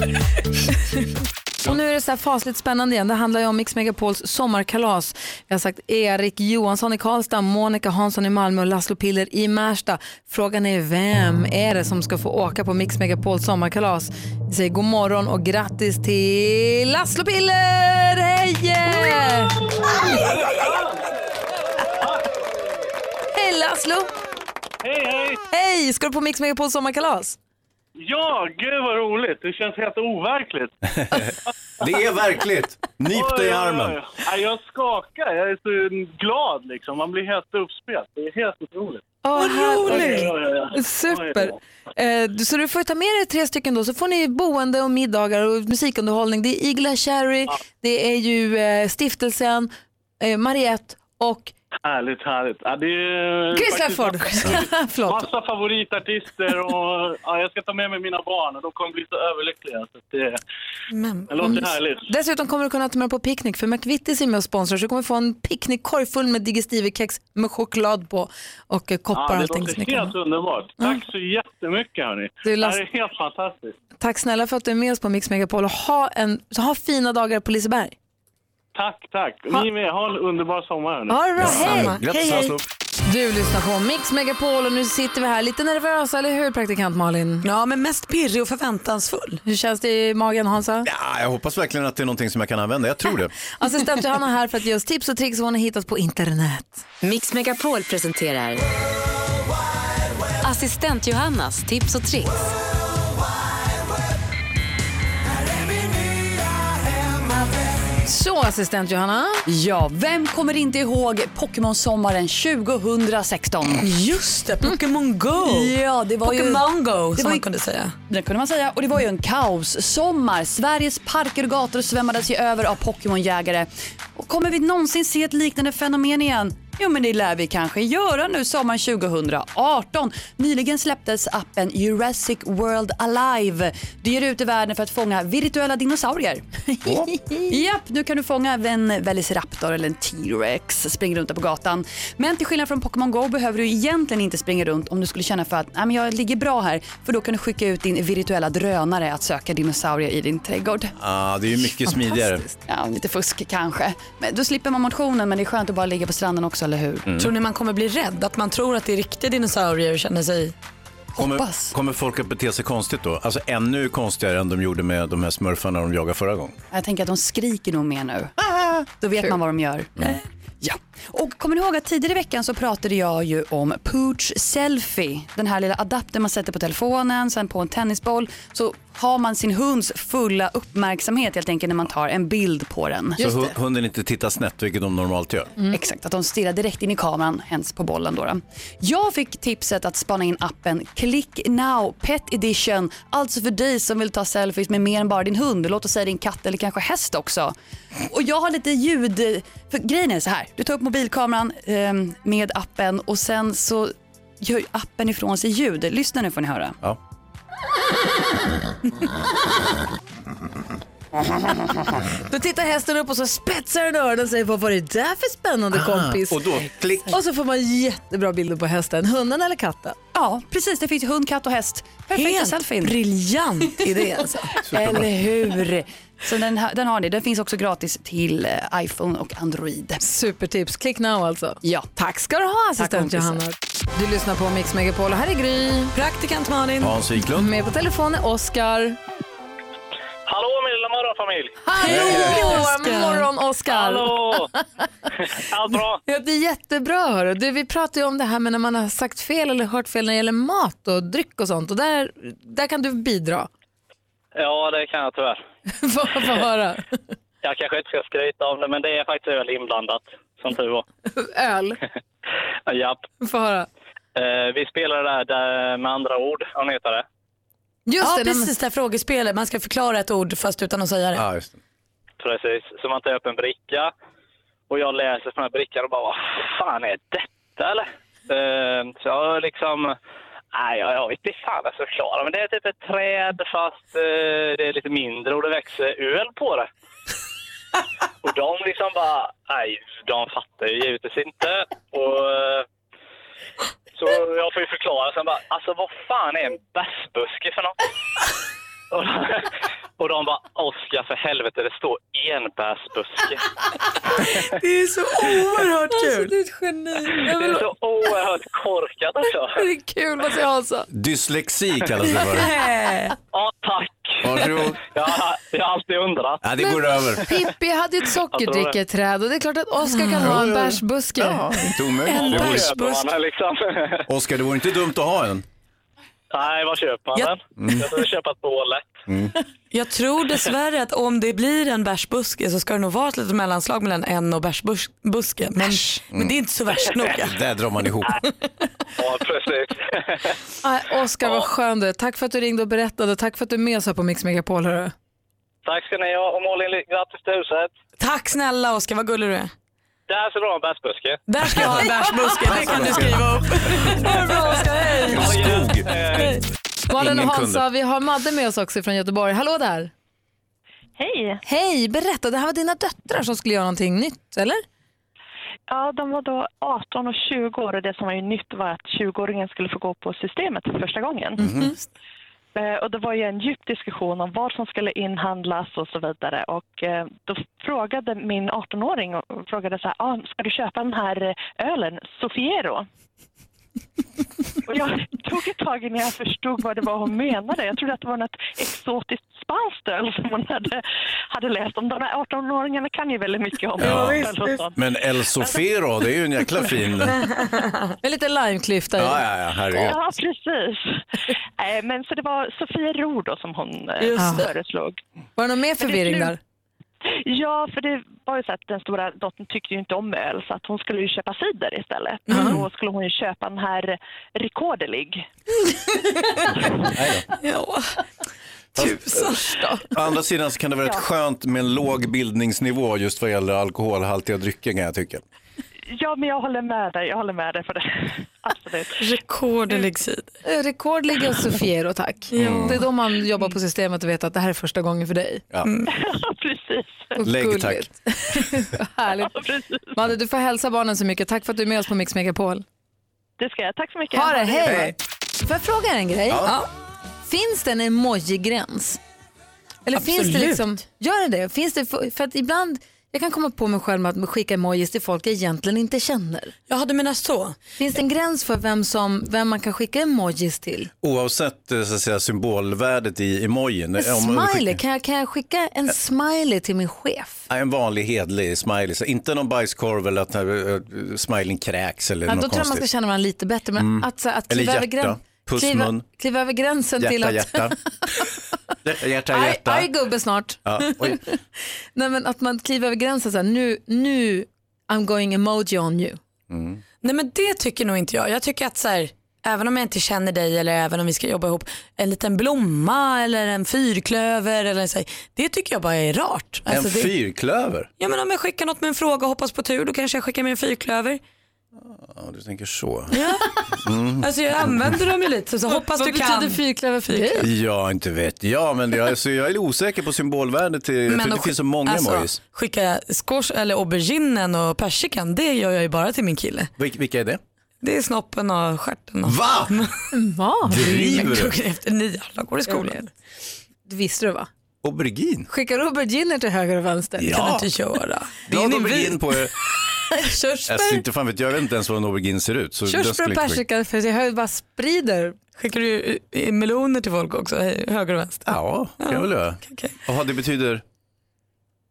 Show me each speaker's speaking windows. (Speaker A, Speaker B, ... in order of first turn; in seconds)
Speaker A: 1.6-19.6, 23.3-24.1, 25.5-27.4, 39.2-51.5, 53.5-55.3, 61.4-70.2, 70.8-71.0, 72.4-72.8, 74.0-77.9, 81.1-82.0, 83.0-87.5, 89.4-90.9, 93.6-96.8, 108.0-109.4, 136.7-137.5, 151.9-152.6, 183.2-183.5, 212.3-216.4, 217.1-219.9, 230.0-235.9, 237.4-239.0, 241.6-244.6, 246.0-253.5, 255.8-257.0, 261.1-261.8, 263.2-263.7, 267.9-268.5, 305.9-307.7, 309.6-310.9, 316.6-321.5, 340.6-344.9, 356.9-359.9, 361.4-364.6, 371.4-371.7, 398.0-399.2, 404.1-404.5, 405.4-406.4, 412.3-412.6, 430.4-435.4, 437.2-439.3, 439.9-442.6, 444.1-446.5, 447.3-449.0, 449.9-456.5, 457.8-460.9, 464.0-467.4, 472.3-477.8, 479.3-481.3, 481.9-486.2, 505.7-507.5, 520.1-521.3, 522.7-523.0, 523.9-524.5, 525.5-527.4, 530.1-531.0, 532.9-535.4
Speaker B: 20.1-21.0, 24.8-25.4, 28.0-30.7, 33.1-41.6, 51.9-60.4, 61.3-62.1, 69.1-73.8, 78.8-81.2
Speaker C: 31.0-34.0, 81.4-82.6, 90.8-93.3, 136.8-137.1, 151.0-152.5, 157.1-157.3, 161.2-166.6, 183.2-185.5, 215.7-217.2, 224.6-225.1, 236.8-237.5, 241.9-242.7, 271.1-271.6, 310.9-312.5, 314.2-314.8, 316.4-317.3, 320.2-322.8, 324.1-325.4, 327.6-327.9, 329.1-329.4, 337.0-338.2, 351.5-354.2, 355.1-356.4, 356.9-357.6, 371.4-371.7, 393.8-397.2, 399.0-400.0, 416.8-417.3, 418.8-419.3, 419.9-425.2, 432.4-432.8, 437.2-438.4, 444.6-444.9, 446.3-446.6, 461.0-464.8, 467.5-472.9, 473.8-476.1, 477.0-478.3, 478.8-479.9, 480.6-481.2, 486.5-486.8, 496.7-497.9, 501.8-503.2, 503.8-505.0, 507.4-512.4, 516.8-517.4, 519.2-519.9, 520.7-521.5, 524.8-525.5, 527.2-527.7, 528.5-529.5, 530.6-533.6, 538.5-540.8
Speaker D: 39.4-40.3, 60.9-61.7, 81.5-82.5, 87.4-89.4, 113.8-117.9, 157.2-160.5, 222.1-224.5, 235.9-236.9, 241.8-243.3, 268.0-271.2, 304.4-306.3, 312.4-313.1, 319.9-320.4, 322.1-323.1, 327.1-327.9, 329.7-337.4, 348.0-349.5, 351.3-355.4, 393.8-394.6, 397.2-397.7, 412.3-412.6, 417.4-418.0, 418.8-419.9, 429.0-430.3, 432.3-432.9, 435.6-435.9, 449.9-450.6, 456.7-457.6, 487.0-497.1, 498.0-501.2, 503.1-503.5, 504.2-507.5, 511.1-516.7, 517.8-519.9, 520.9-523.1, 527.3-529.2, 535.6-539.9
Speaker E: 97.0-98.6, 100.4-102.4
Speaker F: 109.5-113.9, 115.4-117.5, 118.1-136.4, 137.5-150.9, 152.7-157.1, 161.1-161.7, 166.7-168.3, 168.8-169.9, 170.6-183.2, 185.7-206.8, 220.1-223.0, 224.6-230.0, 231.6-231.9, 232.8-233.4
Speaker G: 240.3-241.6, 243.7-244.5, 245.1-246.0, 254.3-255.4, 257.4-260.9, 262.6-263.1, 264.1-267.1, 272.2-273.9, 274.7-279.9, 280.5-286.7, 288.2-292.6, 293.9-297.8, 298.9-303.4, 307.2-309.6, 313.3-316.6, 318.3-318.8, 322.2-324.1, 326.3-329.0, 338.9-340.4, 345.6-347.7, 350.1-351.2, 355.2-356.3
Speaker H: 361.0-361.4, 365.7-371.5, 372.6-382.9, 384.6-394.8, 399.7-401.0, 401.6-405.0, 405.8-406.4, 407.1-415.3, 425.9-429.0, 435.9-437.2, 439.1-439.9, 443.4-444.9